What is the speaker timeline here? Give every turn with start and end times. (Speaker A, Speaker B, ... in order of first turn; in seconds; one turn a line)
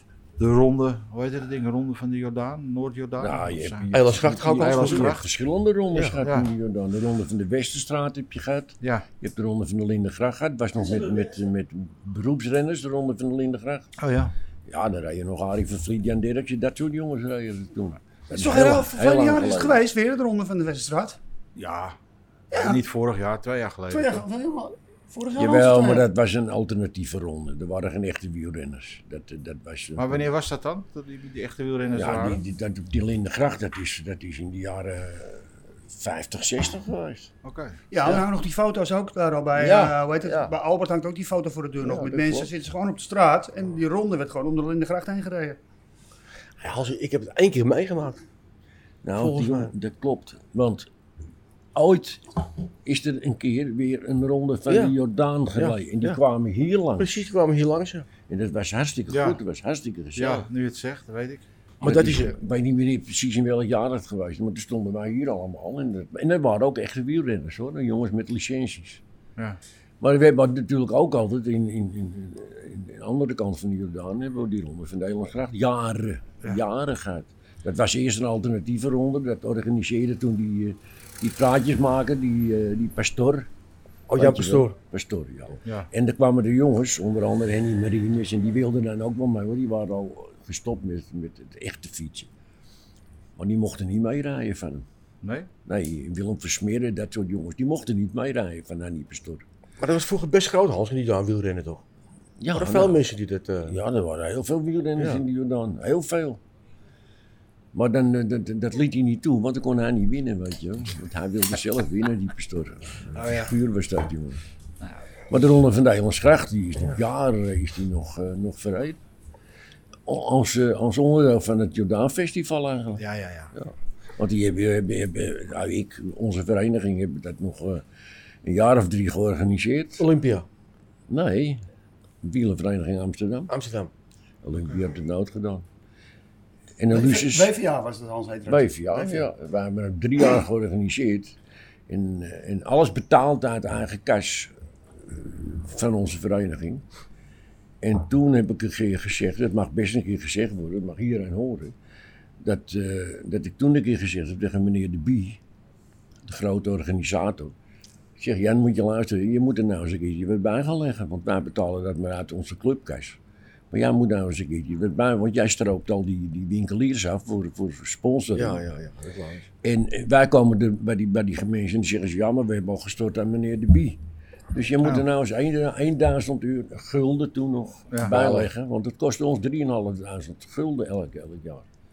Speaker A: 0.4-3.9
Speaker B: 3.2-13.9
Speaker C: 3.9-5.2
Speaker A: 4.7-5.2
Speaker A: 6.2-6.5
Speaker A: 8.8-9.1
Speaker A: 14.0-14.3
Speaker B: 14.7-19.8
Speaker D: 18.3-21.2
Speaker A: 21.6-22.0
Speaker D: 22.5-22.8
Speaker A: 22.5-24.2
Speaker D: 23.9-26.1
Speaker B: 25.4-30.3
Speaker A: 30.0-32.4
Speaker B: 31.9-37.3
Speaker A: 37.4-37.8
Speaker D: 37.9-45.6
Speaker B: 39.6-40.5
Speaker B: 41.8-42.5
Speaker C: 46.6-48.2
Speaker B: 49.0-50.9
Speaker C: 49.2-49.7
Speaker B: 51.8-52.2
Speaker B: 52.9-57.3
Speaker C: 54.7-55.0
Speaker C: 55.5-56.2
Speaker C: 57.0-58.1
Speaker B: 58.3-60.5
Speaker A: 59.1-59.4
Speaker A: 60.2-62.2
Speaker C: 61.8-62.3
Speaker B: 61.8-69.0
Speaker B: 70.0-83.5
Speaker C: 84.1-84.8
Speaker B: 84.2-92.3
Speaker B: 93.4-94.9
Speaker A: 95.2-95.5
Speaker B: 95.7-99.4
Speaker C: 99.8-101.8
Speaker B: 102.4-103.0
Speaker C: 102.5-103.8
Speaker B: 103.7-106.4
Speaker C: 105.0-105.2
Speaker B: 107.7-114.4
Speaker A: 113.1-113.5
Speaker B: 115.3-119.0
Speaker B: 120.1-123.0
Speaker A: 123.0-123.5
Speaker B: 123.5-127.8
Speaker B: 128.4-130.1
Speaker C: 130.0-130.5
Speaker B: 131.1-131.6
Speaker B: 132.2-133.5
Speaker C: 133.5-133.9
Speaker B: 134.4-135.7
Speaker B: 136.8-137.5
Speaker D: 136.9-139.3
Speaker B: 138.5-141.4
Speaker B: 141.9-146.8
Speaker B: 147.8-151.8
Speaker B: 152.4-155.4
Speaker B: 156.2-157.6
Speaker B: 158.2-163.2
Speaker B: 163.7-168.6
Speaker C: 168.3-169.5
Speaker B: 169.6-174.0
Speaker B: 174.5-181.7
Speaker A: 177.9-178.5